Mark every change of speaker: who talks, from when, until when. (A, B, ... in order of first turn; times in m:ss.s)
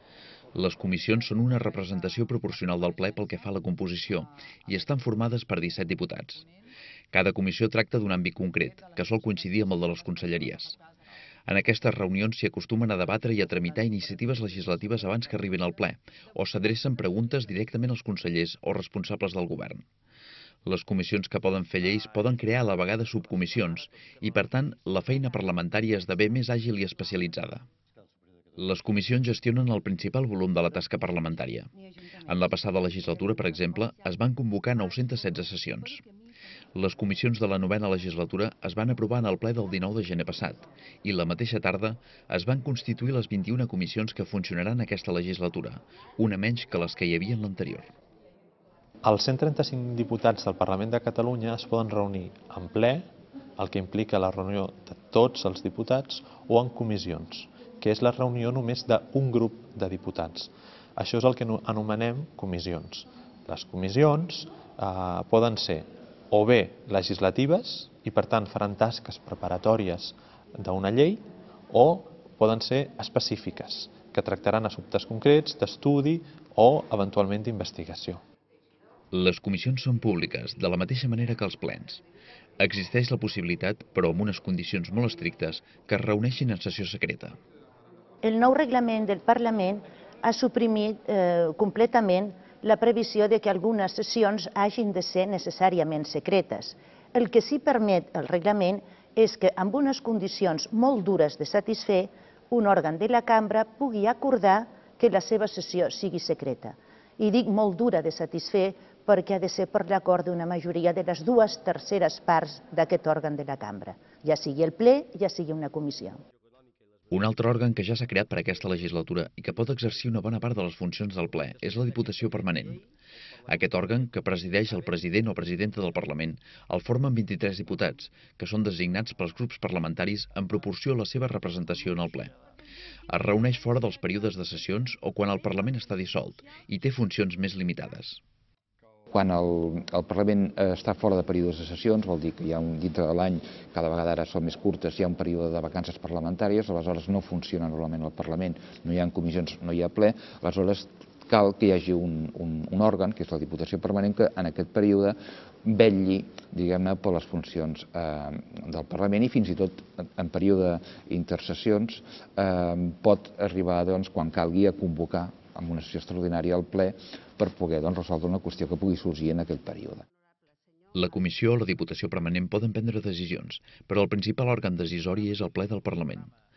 0:00.5-0:06.4 A
0:07.1-0:10.8 A
0:11.5-0:19.8 A
0:20.6-0:27.6 A
0:28.6-0:31.7 A
0:32.2-0:36.0 A
0:36.7-0:47.9 A
0:49.0-1:18.2 B
1:19.1-1:22.0 A
1:22.6-1:27.4 A
1:28.2-1:56.2 C
1:57.1-2:02.8 A
2:03.4-2:12.3 A
2:13.1-2:18.2 A
2:19.1-2:50.0 D
2:50.9-2:56.3 A